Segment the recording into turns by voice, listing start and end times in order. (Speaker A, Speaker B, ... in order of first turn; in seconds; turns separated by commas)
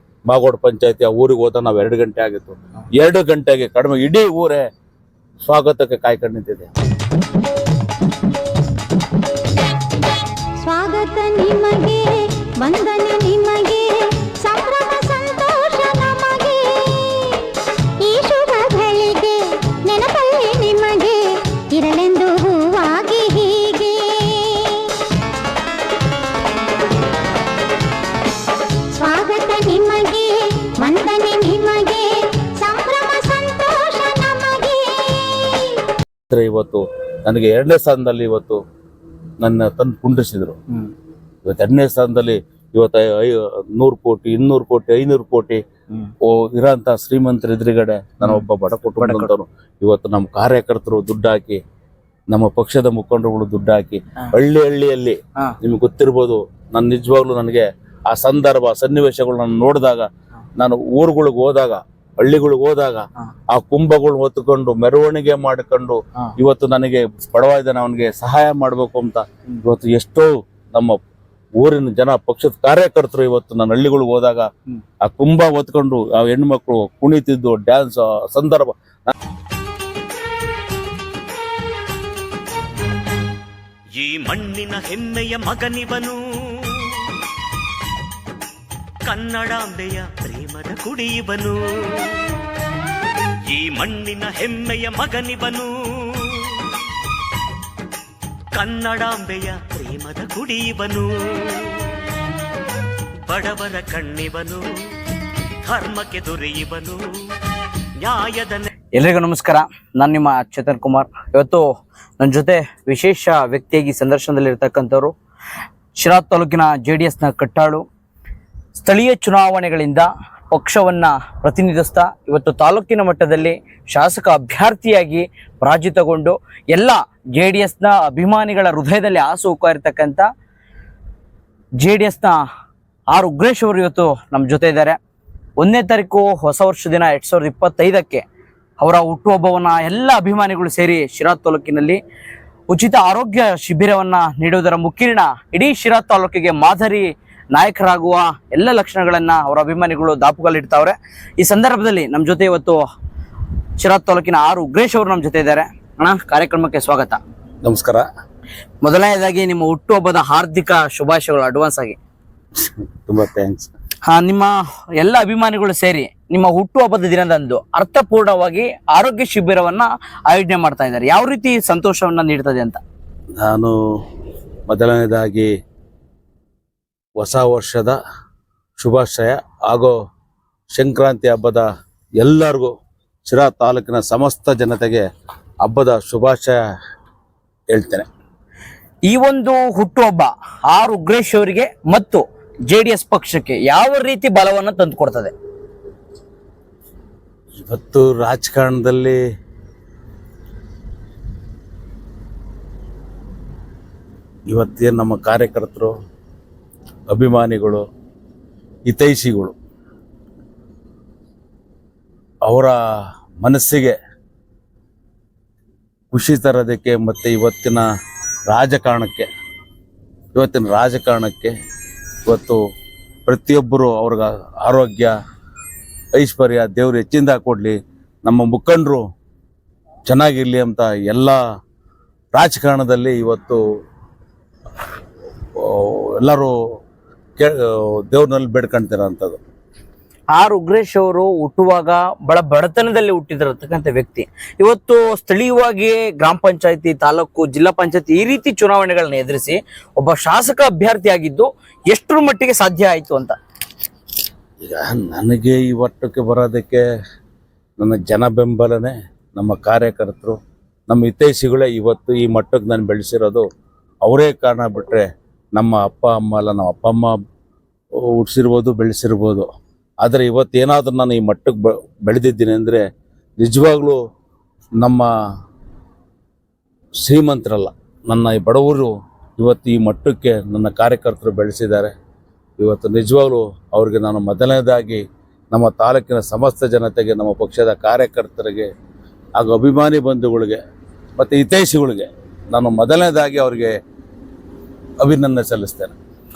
Speaker A: 0.3-4.6, Speaker A: 5.4-6.7, Speaker B: 10.6-25.0, Speaker B: 28.9-35.8, Speaker A: 36.3-38.6, Speaker A: 39.4-40.6, Speaker A: 41.5-45.6, Speaker A: 46.2-51.6, Speaker C: 49.0-49.3, Speaker A: 52.3-71.0, Speaker A: 71.6-74.5, Speaker A: 75.0-79.1, Speaker D: 83.9-86.9, Speaker D: 89.0-92.2, Speaker D: 93.5-96.6, Speaker D: 98.5-101.9, Speaker D: 103.3-104.6, Speaker D: 105.6-107.0, Speaker D: 108.0-108.7, Speaker C: 108.9-115.1, Speaker C: 116.0-117.8, Speaker C: 118.8-130.2, Speaker C: 131.8-132.4, Speaker C: 133.1-135.0, Speaker C: 135.6-138.2, Speaker C: 138.8-142.0, Speaker C: 142.7-152.8, Speaker C: 153.8-157.2, Speaker A: 157.6-158.1, Speaker C: 158.8-162.0, Speaker A: 162.6-163.7, Speaker C: 164.1-172.8, Speaker A: 173.4-173.8, Speaker A: 174.7-175.5, Speaker A: 177.2-178.0, Speaker A: 178.8-179.9, Speaker A: 180.7-181.6, Speaker A: 182.2-182.7, Speaker A: 183.3-185.1, Speaker A: 185.6-186.6, Speaker A: 187.7-188.1, Speaker C: 189.1-195.3, Speaker A: 197.6-199.2, Speaker A: 204.5-205.9, Speaker A: 207.1-207.8, Speaker A: 208.9-209.5, Speaker A: 212.4-213.9, Speaker A: 216.1-217.8, Speaker A: 218.5-219.3, Speaker A: 220.3-221.5, Speaker A: 222.3-222.6, Speaker A: 223.2-225.2, Speaker A: 226.1-229.0, Speaker A: 230.1-231.4, Speaker A: 232.3-233.6, Speaker A: 235.6-236.5, Speaker A: 237.4-239.4, Speaker C: 240.3-253.3, Speaker A: 254.6-256.8, Speaker A: 257.8-260.4, Speaker A: 260.9-263.4, Speaker A: 264.0-267.2, Speaker A: 267.9-269.5, Speaker A: 270.0-272.8, Speaker A: 273.4-274.0, Speaker A: 274.8-275.1, Speaker A: 277.0-281.9, Speaker A: 282.6-288.7, Speaker A: 289.4-290.6, Speaker A: 291.2-293.8, Speaker A: 295.0-295.9